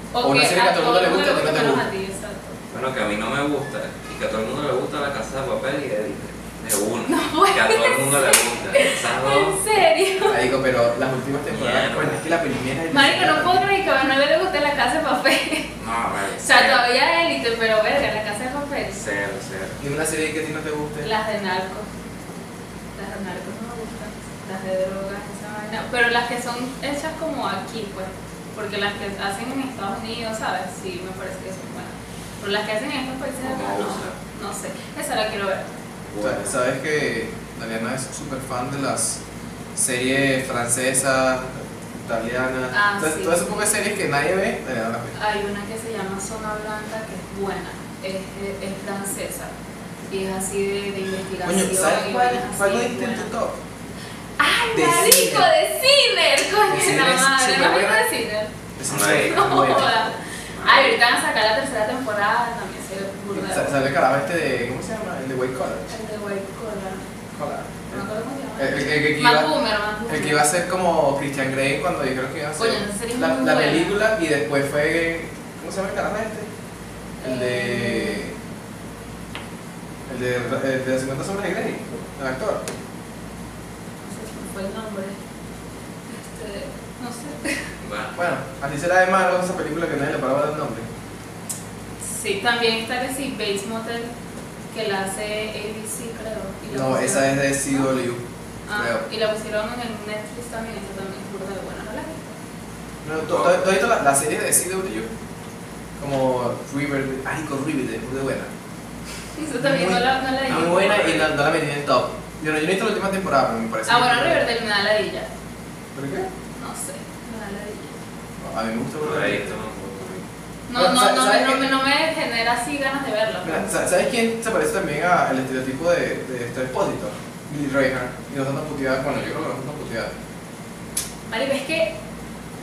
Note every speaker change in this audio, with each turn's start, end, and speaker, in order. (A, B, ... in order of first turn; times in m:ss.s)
0:00.1-0:02.6 A
0:00.2-0:01.8 B
0:02.7-0:09.6 C
0:07.1-0:10.4 A
0:10.3-0:13.7 B
0:11.5-0:12.2 C
0:12.9-0:15.7 A
0:15.8-0:16.9 C
0:16.4-0:19.0 A
0:18.9-0:19.8 C
0:19.8-0:21.1 B
0:21.0-0:21.9 A
0:23.0-0:35.7 A
0:33.4-0:34.2 C
0:36.1-0:36.6 C
0:36.2-0:39.2 B
0:39.8-0:45.1 B
0:42.7-0:43.7 A
0:45.1-0:49.5 A
0:50.1-0:53.3 A
0:51.4-0:53.6 B
0:54.4-0:58.5 A
0:54.7-0:55.5 B
0:56.7-0:58.0 B
0:58.8-1:00.2 B
0:58.9-0:59.7 C
0:59.1-1:03.8 A
1:00.5-1:01.0 C
1:03.3-1:05.9 B
1:05.9-1:07.1 A
1:07.3-1:08.0 B
1:07.9-1:10.5 A
1:08.6-1:09.5 B
1:10.1-1:16.5 B
1:12.6-1:14.0 A
1:17.2-1:18.2 A
1:17.2-1:18.4 B
1:20.1-1:22.6 B
1:24.0-1:25.2 A
1:26.1-1:27.7 A
1:27.8-1:28.2 C
1:28.2-1:30.9 B
1:32.0-1:34.1 A
1:34.7-1:37.8 A
1:36.7-1:38.2 B
1:38.7-1:42.3 A
1:38.7-1:39.0 B
1:43.0-1:45.1 B
1:43.2-1:43.6 C
1:46.0-1:48.5 B
1:49.4-1:51.2 A
1:49.6-1:54.5 B
1:50.5-1:51.3 C
1:53.9-1:55.3 A
1:55.9-1:56.3 B
1:56.6-1:58.0 A
1:58.4-1:59.6 B
1:59.0-2:00.3 C
2:00.7-2:03.7 A
2:00.8-2:01.7 B
2:03.4-2:10.1 B
2:11.3-2:11.9 A